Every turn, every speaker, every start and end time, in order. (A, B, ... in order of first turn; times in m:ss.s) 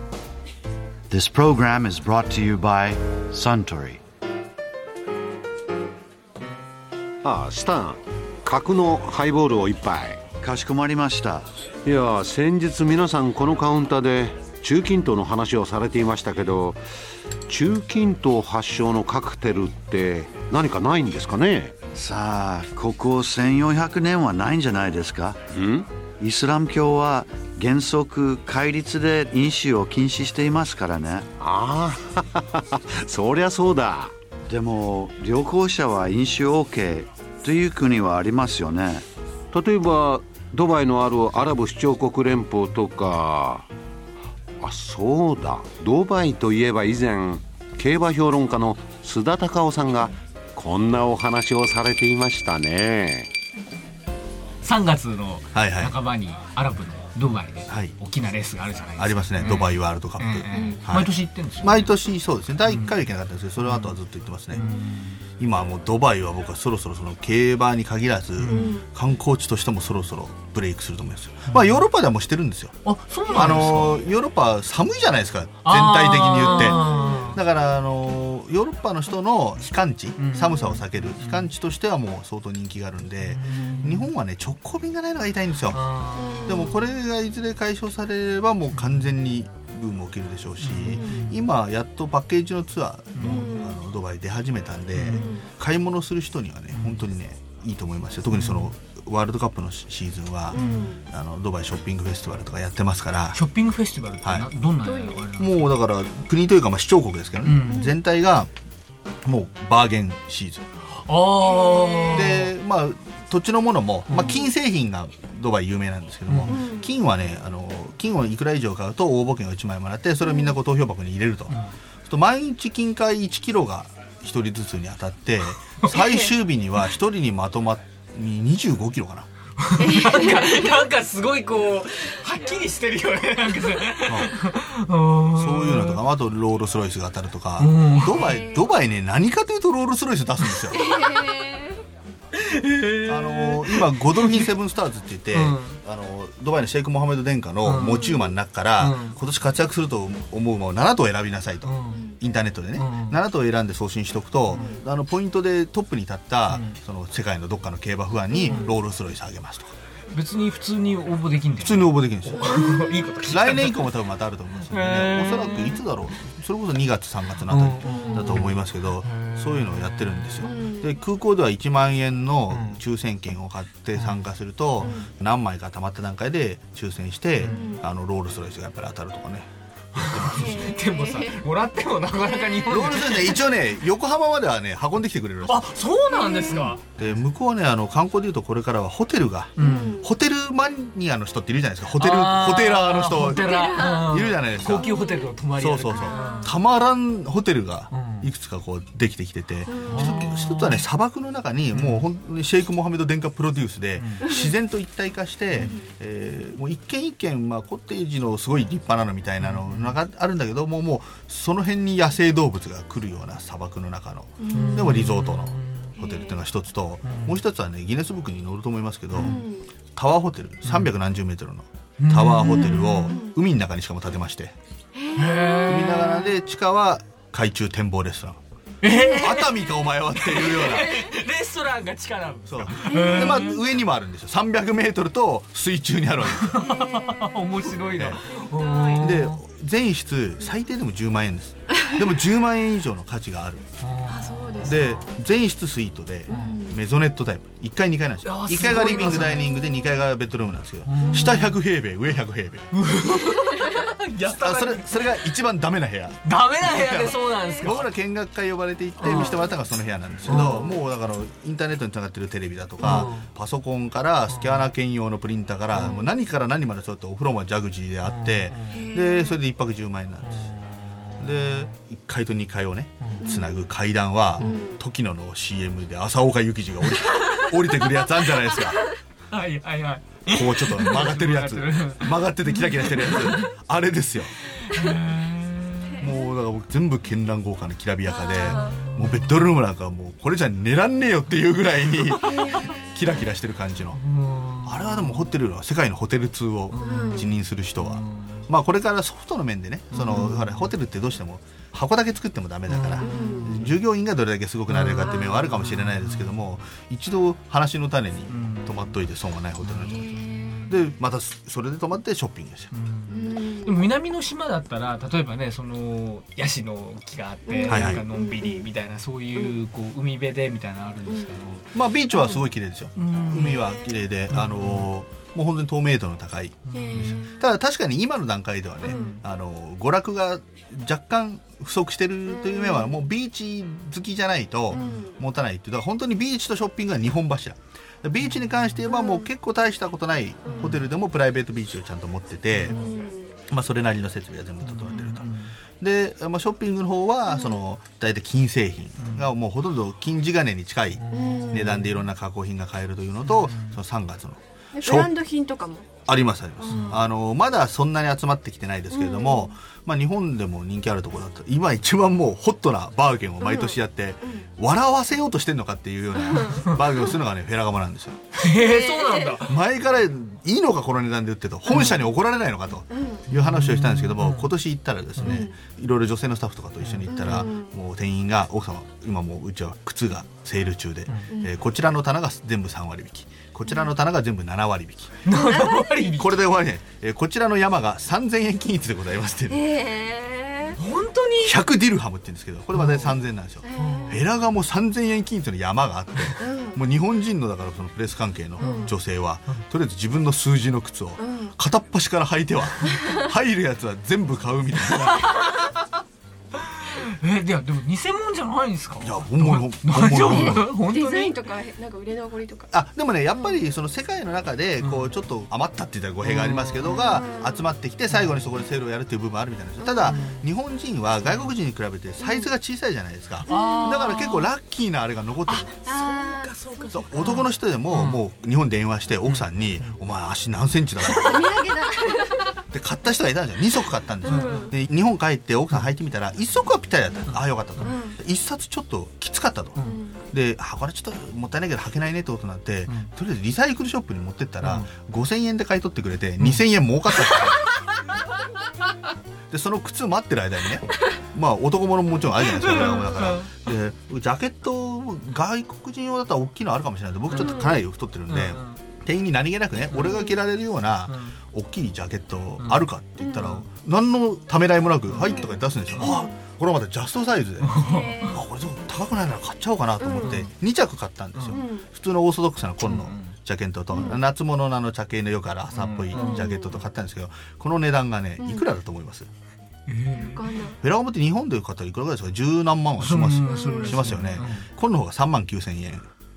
0:01.1-0:04.0 A
0:07.2-0:10.2 B
0:10.4-0:11.5 A
0:11.8-0:16.8 B
0:17.5-0:21.7 B
0:22.0-0:25.4 A
0:25.5-0:25.9 B
0:26.2-0:31.3 A
0:31.4-0:34.1 B
0:34.5-0:39.0 A
0:39.5-0:43.7 B
0:44.6-0:53.3 B
0:54.6-1:02.0 C
0:55.5-0:56.0 D
0:57.7-0:58.0 D
0:59.0-1:04.6 D
1:00.5-1:00.8 E
1:02.6-1:03.0 C
1:03.6-1:04.0 C
1:04.5-1:05.2 C
1:05.4-1:12.8 D
1:08.4-1:08.8 C
1:08.4-1:08.9 E
1:11.4-1:11.8 C
1:12.8-1:14.0 C
1:13.3-1:13.8 E
1:13.3-1:16.8 D
1:15.6-1:17.4 C
1:16.4-1:17.3 E
1:17.3-1:25.8 D
1:20.2-1:21.5 C
1:23.3-1:24.1 C
1:25.7-1:26.5 C
1:26.1-1:26.8 E
1:26.4-1:43.4 D
1:28.7-1:29.1 C
1:30.6-1:31.4 C
1:30.9-1:31.3 E
1:33.1-1:33.4 C
1:33.2-1:33.8 E
1:34.9-1:35.3 C
1:35.1-1:35.5 E
1:36.7-1:37.0 C
1:38.3-1:38.7 C
1:40.5-1:41.0 E
1:40.6-1:40.9 C
1:43.3-1:45.8 C
1:44.8-1:45.3 E
1:45.3-1:48.5 D
1:47.4-1:47.8 C
1:47.6-1:48.0 E
1:49.2-1:50.7 D
1:51.0-1:52.5 C
1:51.4-1:52.3 E
1:52.1-2:09.3 D
1:54.1-1:54.4 C
1:54.1-1:54.5 E
1:56.3-1:56.6 C
1:56.5-1:56.9 E
2:00.2-2:00.5 E
2:05.9-2:06.3 E
2:09.6-2:16.0 C
2:09.8-2:10.8 E
2:14.1-2:14.3 D
2:15.4-2:20.8 D
2:17.6-2:18.4 C
2:18.0-2:18.8 E
2:20.4-2:21.3 C
2:20.7-2:21.8 E
2:22.3-2:24.5 C
2:23.0-2:39.8 D
2:25.3-2:25.8 C
2:27.6-2:28.0 C
2:27.9-2:28.3 E
2:28.8-2:29.2 C
2:31.6-2:32.1 C
2:31.9-2:32.2 E
2:32.7-2:33.2 C
2:34.5-2:34.8 C
2:34.5-2:34.8 E
2:36.5-2:36.8 C
2:38.3-2:38.7 E
2:38.4-2:38.7 C
2:40.1-2:44.0 C
2:41.6-2:42.6 D
2:42.6-2:43.0 E
2:43.3-2:59.5 D
2:44.6-2:45.9 C
2:47.4-2:48.5 C
2:47.8-2:48.4 E
2:49.1-2:49.7 C
2:50.4-2:51.0 E
2:52.5-2:52.8 C
2:54.0-2:54.2 C
2:54.8-2:55.1 E
2:57.4-2:57.7 C
2:57.5-2:57.8 E
2:59.9-3:03.8 C
3:00.0-3:00.4 D
3:00.3-3:01.4 E
3:02.2-3:02.9 E
3:02.7-3:05.8 D
3:05.4-3:06.8 C
3:06.0-3:06.8 E
3:07.0-3:13.5 D
3:09.6-3:10.0 C
3:09.6-3:10.1 E
3:11.9-3:16.4 C
3:13.2-3:15.4 E
3:14.1-3:14.8 D
3:15.6-3:39.2 D
3:15.9-3:16.6 E
3:17.9-3:18.3 C
3:19.7-3:20.5 E
3:19.7-3:20.8 C
3:21.7-3:22.0 C
3:24.0-3:24.3 C
3:24.2-3:24.5 E
3:25.6-3:25.9 E
3:29.4-3:30.0 C
3:34.4-3:35.0 E
3:34.5-3:36.0 C
3:36.0-3:36.4 E
3:37.0-3:37.4 C
3:39.1-3:39.4 C
3:39.2-3:39.7 E
3:39.9-3:44.5 D
3:40.7-3:40.9 C
3:42.0-3:43.2 C
3:42.4-3:43.3 E
3:44.9-3:46.3 E
3:45.1-3:46.2 C
3:45.7-3:48.4 D
3:48.8-3:53.8 C
3:48.9-3:49.5 E
3:49.2-3:50.8 D
3:50.7-3:51.1 E
3:52.4-3:56.7 D
3:52.8-3:53.5 E
3:56.3-3:59.4 C
3:56.6-3:57.3 E
3:57.9-3:58.2 D
3:58.3-3:59.1 E
3:59.0-4:03.7 D
4:03.8-4:05.0 C
4:04.0-4:05.1 E
4:04.6-4:12.7 D
4:06.3-4:06.8 E
4:06.3-4:06.6 C
4:08.2-4:09.5 C
4:08.7-4:10.0 E
4:10.9-4:11.6 C
4:11.0-4:11.3 E
4:12.7-4:15.4 C
4:13.3-4:13.8 E
4:14.2-4:30.6 D
4:16.2-4:17.9 C
4:17.2-4:17.8 E
4:19.0-4:19.5 C
4:19.0-4:19.5 E
4:20.2-4:20.6 C
4:20.3-4:20.8 E
4:22.8-4:23.1 E
4:22.8-4:23.3 C
4:24.3-4:24.7 C
4:25.8-4:26.1 E
4:28.0-4:28.8 C
4:28.7-4:29.4 E
4:30.2-4:30.6 C
4:31.2-4:31.7 C
4:31.2-4:38.9 D
4:33.0-4:33.3 C
4:33.2-4:33.7 E
4:34.4-4:34.8 E
4:36.9-4:38.5 C
4:39.3-4:43.6 C
4:40.3-4:44.3 D
4:44.5-4:46.0 C
4:46.0-4:54.0 D
4:48.2-4:48.7 E
4:48.5-4:49.5 C
4:52.2-4:52.7 E
4:54.0-4:55.4 C
4:54.6-5:12.7 D
4:56.7-4:58.5 C
4:56.8-4:57.3 E
4:59.9-5:00.7 C
4:59.9-5:00.4 E
5:02.7-5:03.8 C
5:03.0-5:03.6 E
5:04.7-5:06.4 C
5:08.3-5:08.9 C
5:09.6-5:10.0 C
5:09.8-5:10.7 E
5:12.7-5:21.9 C
5:13.1-5:13.9 E
5:17.4-5:18.7 E
5:17.7-5:18.1 D
5:21.1-5:21.3 E
5:21.7-5:42.8 D
5:22.1-5:22.4 E
5:23.0-5:23.7 C
5:24.3-5:24.9 C
5:26.7-5:27.0 C
5:26.7-5:27.4 E
5:28.8-5:29.2 E
5:28.9-5:29.2 C
5:32.3-5:32.9 E
5:34.7-5:35.2 E
5:38.2-5:38.7 C
5:38.9-5:39.3 E
5:40.4-5:40.8 E
5:40.5-5:40.8 C
5:42.5-5:42.9 C
5:42.6-5:43.4 E
5:43.5-5:55.1 D
5:44.6-5:45.5 C
5:47.3-5:47.6 E
5:49.0-5:49.3 C
5:51.1-5:52.1 C
5:51.1-5:51.7 E
5:53.2-5:53.8 C
5:54.7-5:55.9 E
5:56.1-6:08.2 D
5:56.6-5:57.1 E
5:58.9-5:59.5 E
6:03.4-6:04.5 E
6:06.2-6:07.2 E
6:08.3-6:09.6 C
6:08.4-6:09.4 E
6:09.4-6:25.2 D
6:11.7-6:12.1 E
6:12.9-6:13.3 E
6:13.3-6:14.6 C
6:15.2-6:15.5 C
6:15.2-6:15.6 E
6:16.8-6:17.5 C
6:17.1-6:17.8 E
6:21.1-6:21.4 C
6:25.2-6:26.6 C
6:25.3-6:26.2 E
6:26.1-6:29.8 D
6:29.5-6:30.8 E
6:30.8-6:31.7 C
6:31.4-6:45.2 D
6:32.7-6:33.2 C
6:33.6-6:34.2 E
6:33.8-6:34.2 C
6:36.4-6:36.8 E
6:38.6-6:38.9 C
6:38.6-6:39.0 E
6:41.2-6:41.6 E
6:42.8-6:43.3 E
6:44.9-6:45.7 C
6:45.2-6:45.5 E
6:46.6-6:51.4 C
6:49.0-6:50.7 D
6:50.3-6:52.7 E
6:52.7-7:05.8 D
6:53.3-6:53.6 E
6:54.8-6:55.2 C
6:56.2-6:57.2 C
6:57.0-6:57.7 E
6:58.1-6:58.4 C
6:59.8-7:00.4 E
7:00.1-7:00.4 C
7:01.2-7:01.5 C
7:02.2-7:02.5 E
7:03.5-7:04.5 C
7:03.5-7:04.2 E
7:05.5-7:08.2 C
7:05.8-7:07.0 E
7:06.9-7:11.5 D
7:09.2-7:10.0 C
7:11.2-7:12.6 E
7:12.7-7:19.8 D
7:14.2-7:14.7 C
7:14.3-7:14.8 E
7:17.2-7:18.0 C
7:17.8-7:18.2 E
7:19.8-7:20.2 E
7:20.3-7:27.6 D
7:26.4-7:27.4 C
7:29.5-7:59.3 D
7:32.5-7:33.5 C
7:32.9-7:33.2 E
7:37.3-7:37.6 C
7:37.3-7:37.8 E
7:38.3-7:38.8 C
7:39.9-7:40.2 C
7:40.0-7:40.3 E
7:41.1-7:41.4 C
7:42.6-7:42.9 C
7:43.2-7:43.5 E
7:45.1-7:45.4 C
7:45.2-7:46.4 E
7:47.6-7:48.4 C
7:47.8-7:48.4 E
7:50.0-7:50.4 E
7:50.2-7:50.5 C
7:51.4-7:51.6 C
7:51.5-7:51.9 E
7:52.8-7:53.4 C
7:53.9-7:54.2 E
7:55.7-7:56.4 C
7:56.1-7:56.8 E
7:58.4-7:58.8 E
7:59.9-8:00.6 C
8:00.1-8:00.8 E
8:00.8-8:06.1 D
8:03.0-8:04.7 C
8:03.4-8:04.2 E